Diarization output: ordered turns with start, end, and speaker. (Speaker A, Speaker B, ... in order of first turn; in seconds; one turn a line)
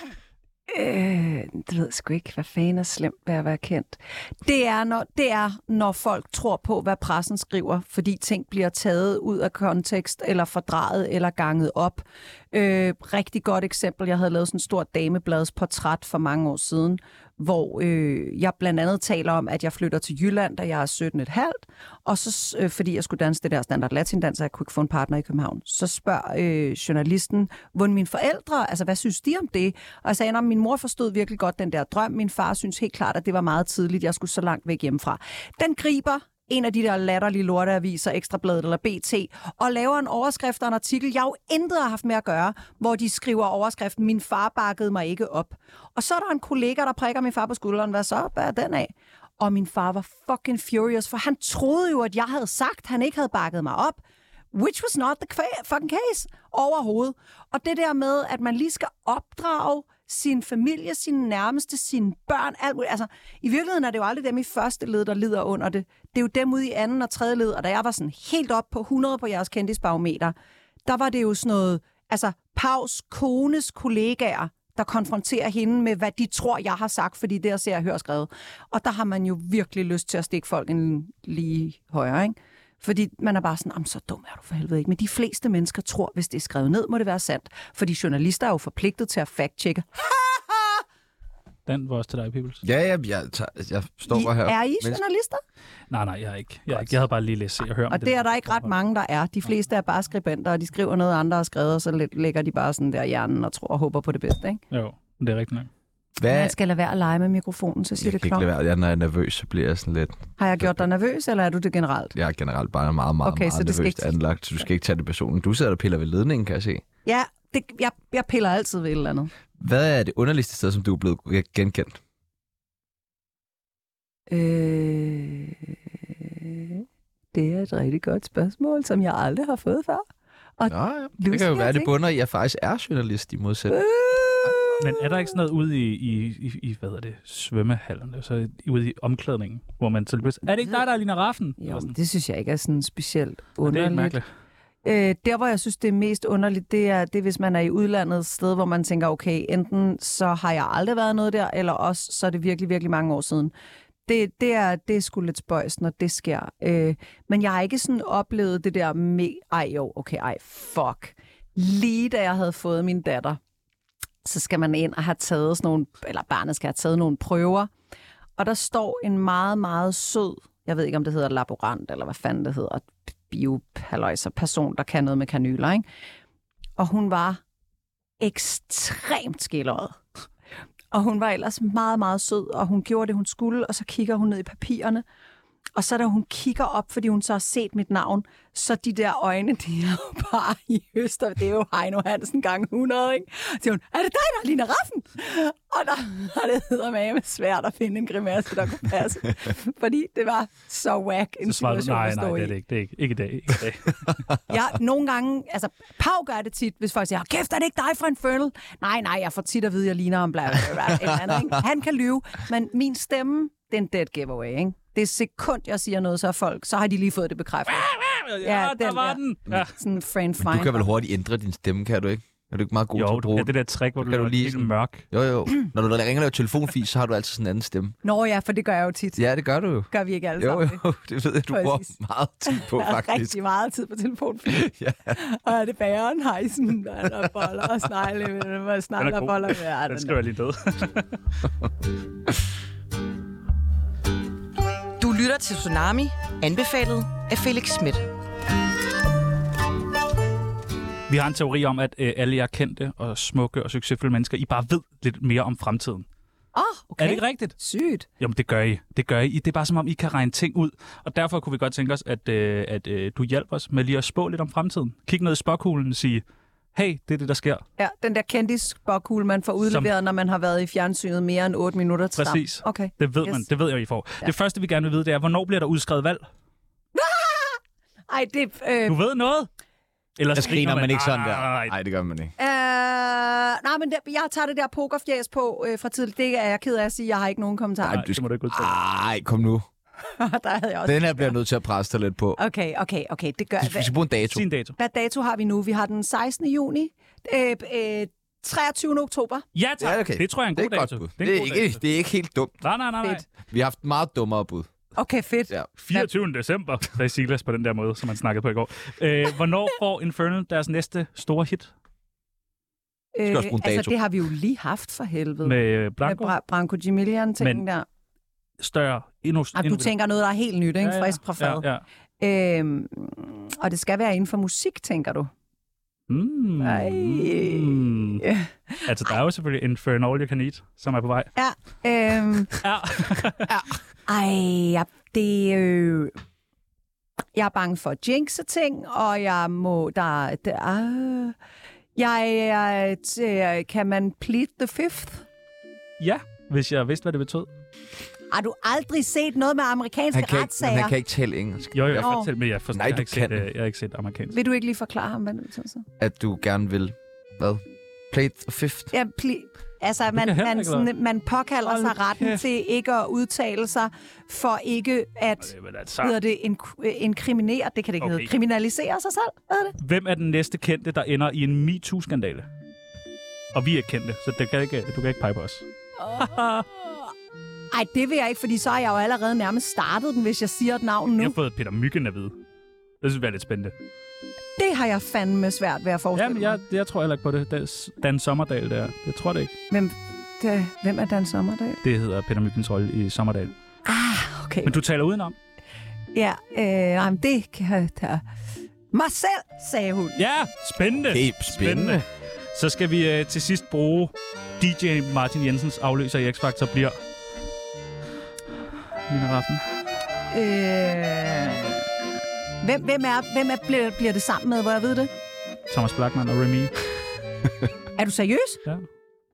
Speaker A: 0.7-54.0
Speaker A: 54.5-70.3
Speaker A: 70.9-90.8
Speaker B: 91.7-92.6
Speaker C: 92.6-95.0
Speaker A: 94.1-95.4
Speaker B: 95.9-98.7
Speaker A: 97.9-104.6
Speaker B: 104.7-105.7
Speaker C: 106.2-106.5
Speaker A: 106.3-108.5
Speaker C: 108.0-110.7
Speaker A: 110.4-112.2
Speaker C: 112.2-116.8
Speaker A: 113.2-114.2
Speaker A: 117.1-119.3
Speaker C: 119.6-122.0
Speaker A: 124.3-130.1
Speaker A: 130.6-131.9
Speaker C: 130.7-133.8
Speaker A: 133.7-135.0
Speaker B: 134.8-141.9
Speaker A: 141.6-144.2
Speaker B: 143.7-144.3
Speaker A: 144.8-153.5
Speaker A: 154.1-163.4
Speaker A: 164.2-167.7
Speaker A: 168.4-175.8
Speaker A: 176.8-177.4
Speaker A: 178.2-180.0
Speaker A: 180.9-185.1
Speaker A: 185.8-202.5
Speaker B: 201.5-204.1
Speaker A: 204.5-220.8
Speaker B: 217.7-219.7
Speaker C: 220.4-228.0
Speaker B: 222.9-225.1
Speaker A: 228.0-229.2
Speaker C: 229.2-233.4
Speaker A: 229.9-230.8
Speaker A: 231.5-231.9
Speaker A: 232.4-240.2
Speaker C: 234.5-235.2
Speaker B: 239.0-241.1
Speaker D: 245.0-248.1
Speaker B: 251.1-256.1
Speaker A: 256.6-258.1
Speaker B: 257.0-257.6
Speaker B: 258.2-266.2
Speaker B: 266.7-267.6
Speaker A: 267.8-273.4
Speaker B: 272.2-276.2
Speaker A: 276.9-279.0
Speaker B: 278.9-279.5
Speaker B: 280.2-281.8
Speaker C: 280.3-282.3
Speaker A: 282.4-288.1
Speaker C: 287.9-289.7
Speaker B: 287.9-288.7
Speaker A: 290.0-291.3
Speaker C: 290.9-292.4
Speaker A: 292.4-293.9
Speaker C: 293.6-294.4
Speaker B: 294.3-294.8
Speaker A: 294.8-299.4
Speaker B: 299.6-301.8
Speaker C: 299.8-302.6
Speaker B: 302.6-303.3
Speaker C: 303.5-304.7
Speaker A: 305.0-306.1
Speaker B: 305.8-311.7
Speaker A: 313.1-317.9
Speaker C: 313.3-314.0
Speaker B: 315.4-316.3
Speaker B: 318.6-319.9
Speaker A: 319.6-321.6
Speaker B: 320.8-321.8
Speaker A: 322.2-325.3
Speaker B: 326.1-328.2
Speaker A: 326.6-329.1
Speaker B: 328.9-331.3
Speaker A: 331.4-332.6
Speaker B: 332.6-333.6
Speaker A: 334.1-336.1
Speaker A: 337.4-341.4
Speaker A: 342.0-345.3
Speaker B: 346.0-347.5
Speaker A: 348.3-351.0
Speaker C: 350.1-352.1
Speaker B: 351.7-354.4
Speaker A: 352.0-352.3
Speaker C: 352.7-353.5
Speaker A: 354.3-355.9
Speaker C: 356.0-358.9
Speaker A: 358.9-369.8
Speaker B: 360.1-360.9
Speaker B: 361.7-362.4
Speaker B: 365.4-366.1
Speaker B: 368.0-368.3
Speaker B: 369.8-372.5
Speaker B: 373.5-375.7
Speaker A: 376.0-377.0
Speaker B: 376.2-376.7
Speaker A: 377.7-381.4
Speaker B: 381.2-382.4
Speaker B: 383.0-383.8
Speaker A: 384.6-386.6
Speaker B: 386.1-389.5
Speaker A: 389.7-391.8
Speaker B: 391.8-393.5
Speaker A: 393.9-394.8
Speaker B: 394.7-395.4
Speaker A: 396.1-398.2
Speaker A: 398.9-400.2
Speaker B: 400.2-407.0
Speaker C: 401.1-402.0
Speaker B: 409.1-409.7
Speaker A: 410.3-411.8
Speaker A: 412.6-415.1
Speaker B: 415.7-416.7
Speaker A: 418.0-418.6